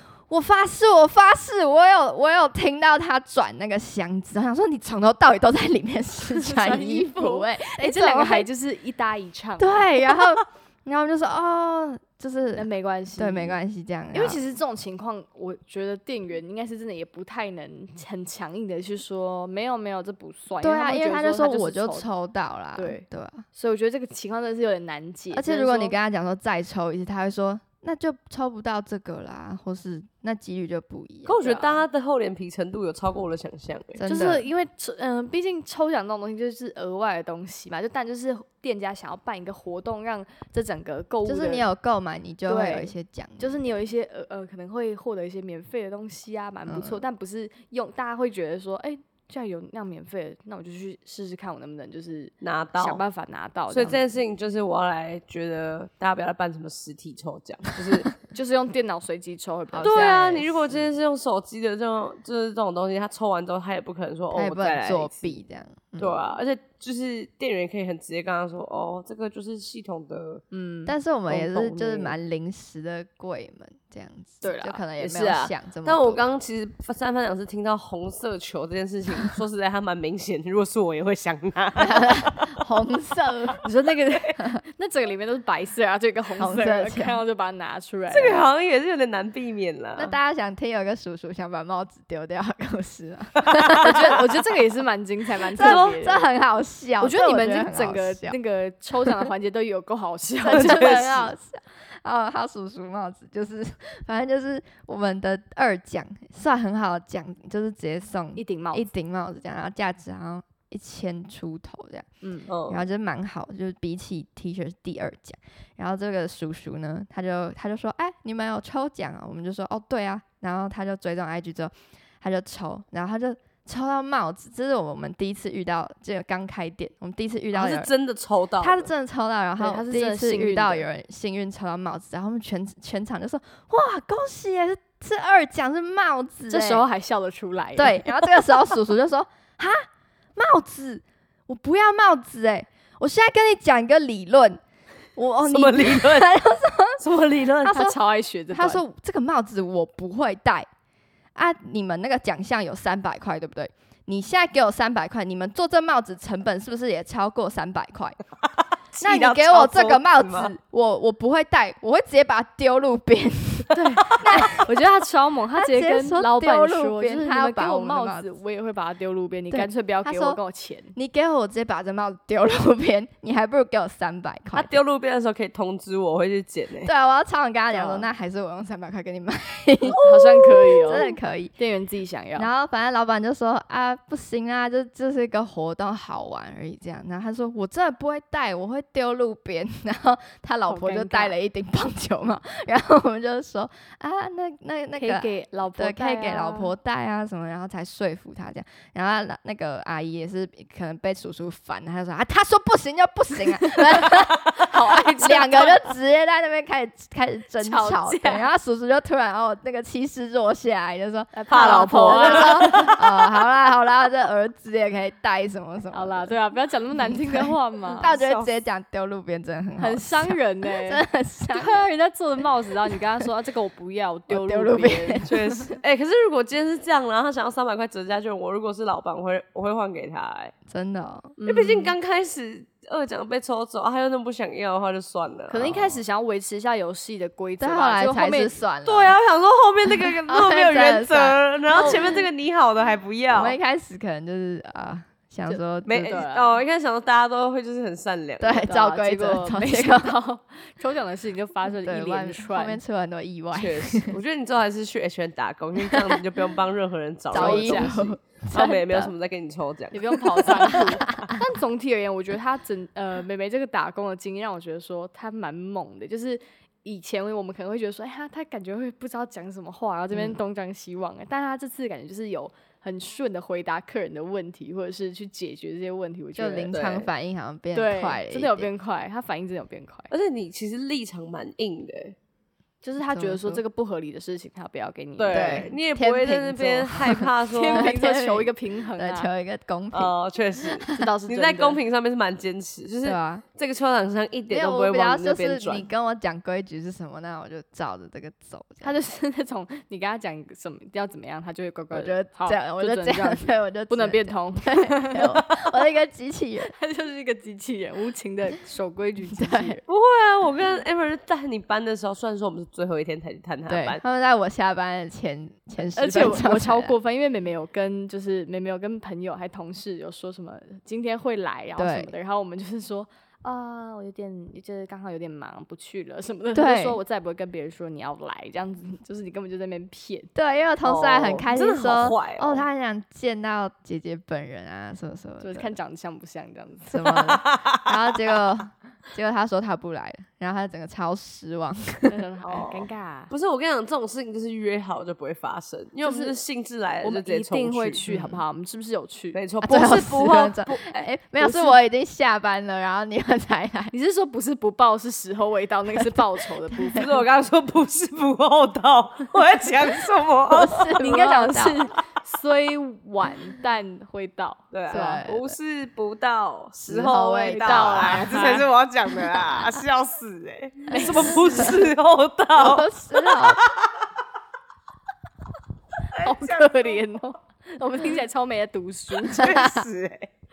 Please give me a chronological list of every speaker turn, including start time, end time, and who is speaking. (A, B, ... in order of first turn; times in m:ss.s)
0:00.3-0:08.5 A
0:06.3-0:09.9 B
0:09.6-0:14.4 A
0:12.6-0:13.6 B
0:14.1-0:22.1 B
0:20.6-0:23.4 A
0:22.7-0:26.0 B
0:25.3-0:31.5 A
0:31.2-0:34.1 C
0:31.4-0:31.7 B
0:34.0-0:34.4 A
0:34.1-0:41.6 B
0:41.2-0:43.7 A
0:42.5-0:54.0 B
0:46.7-0:47.0 A
0:52.4-0:53.0 C
0:53.7-0:58.1 C
0:58.3-1:00.2 B
0:59.7-1:00.8 A
0:59.8-1:05.4 C
1:04.3-1:06.2 A
1:06.0-1:10.4 C
1:10.5-1:10.9 B
1:10.8-1:16.2 A
1:11.3-1:12.1 C
1:14.4-1:15.5 B
1:15.8-1:22.5 C
1:21.8-1:23.6 A
1:23.6-1:28.4 B
1:26.4-1:27.2 A
1:28.1-1:30.1 C
1:30.0-1:34.2 A
1:33.8-1:36.2 B
1:35.6-1:38.4 A
1:35.6-1:35.9 C
1:37.0-1:41.3 B
1:40.4-1:52.1 A
1:40.5-1:41.2 C
1:48.4-1:48.9 B
1:52.2-1:52.5 B
1:52.5-1:52.8 C
1:52.7-2:07.9 A
2:07.5-2:08.9 C
2:08.6-2:16.8 A
2:09.6-2:10.8 B
2:16.5-2:18.5 B
2:17.8-2:24.6 A
2:25.2-2:27.0 A
2:25.4-2:26.3 C
2:27.0-2:27.8 C
2:27.6-2:27.9 A
2:27.6-2:28.8 B
2:28.5-2:30.7 A
2:31.3-2:38.2 A
2:38.9-2:40.5 C
2:39.0-2:44.8 A
2:43.7-2:51.0 B
2:45.6-2:48.3 A
2:49.5-2:50.4 A
2:50.9-2:54.8 A
2:54.5-2:56.9 C
2:56.8-3:00.0 A
2:57.7-2:58.1 B
2:59.9-3:01.0 B
2:59.9-3:01.2 C
3:00.9-3:01.5 A
3:01.6-3:02.5 B
3:02.4-3:36.4 A
3:10.7-3:11.3 B
3:15.0-3:16.7 B
3:24.6-3:25.8 B
3:27.6-3:28.5 B
3:31.3-3:32.9 B
3:31.5-3:33.2 C
3:35.9-3:38.1 B
3:37.0-3:41.8 A
3:37.9-3:38.5 C
3:39.8-3:45.7 B
3:44.3-3:45.7 A
3:45.3-3:50.5 C
3:50.7-3:51.3 A
3:51.4-3:51.9 B
3:51.4-3:56.0 C
3:55.5-3:58.5 B
3:57.6-3:59.2 A
3:58.8-4:03.6 C
3:59.9-4:02.2 A
4:03.3-4:06.2 A
4:05.5-4:06.6 B
4:05.8-4:08.7 C
4:08.4-4:10.2 A
4:08.6-4:12.8 B
4:11.8-4:14.1 A
4:13.5-4:20.8 C
4:17.3-4:19.1 A
4:17.3-4:17.9 B
4:19.9-4:36.8 B
4:20.7-4:21.3 A
4:30.1-4:30.4 A
4:36.4-4:38.7 A
4:36.7-4:37.1 C
4:37.7-4:40.1 B
4:40.1-4:42.2 C
4:42.8-4:45.7 B
4:43.0-4:43.6 A
4:45.2-4:47.9 C
4:45.3-4:50.1 A
4:47.5-4:49.3 B
4:49.9-4:55.9 C
4:50.9-4:51.8 B
4:53.0-4:53.4 A
4:54.5-4:58.9 A
4:58.8-5:05.4 B
5:01.9-5:06.7 A
5:06.6-5:09.8 B
5:09.4-5:09.8 A
5:09.9-5:14.0 C
5:13.7-5:16.9 A
5:16.0-5:30.3 B
5:21.8-5:22.1 A
5:26.5-5:27.0 A
5:30.3-5:35.8 A
5:30.8-5:32.6 C
5:35.4-5:37.3 B
5:36.9-5:42.1 A
5:37.0-5:38.3 C
5:42.1-5:43.3 B
5:42.4-5:48.0 C
5:46.0-5:46.4 B
5:47.0-5:51.8 B
5:48.1-5:48.4 A
5:49.3-5:50.5 C
5:49.6-5:53.9 A
5:53.9-5:57.1 B
5:56.9-6:00.9 C
6:00.5-6:01.8 A
6:00.7-6:05.1 B
6:04.7-6:14.0 C
6:04.9-6:05.6 A
6:06.8-6:08.5 A
6:07.6-6:08.7 B
6:10.9-6:11.7 B
6:11.1-6:11.7 A
6:12.6-6:13.6 A
6:16.1-6:16.9 C
6:16.1-6:19.8 B
6:19.2-6:20.3 C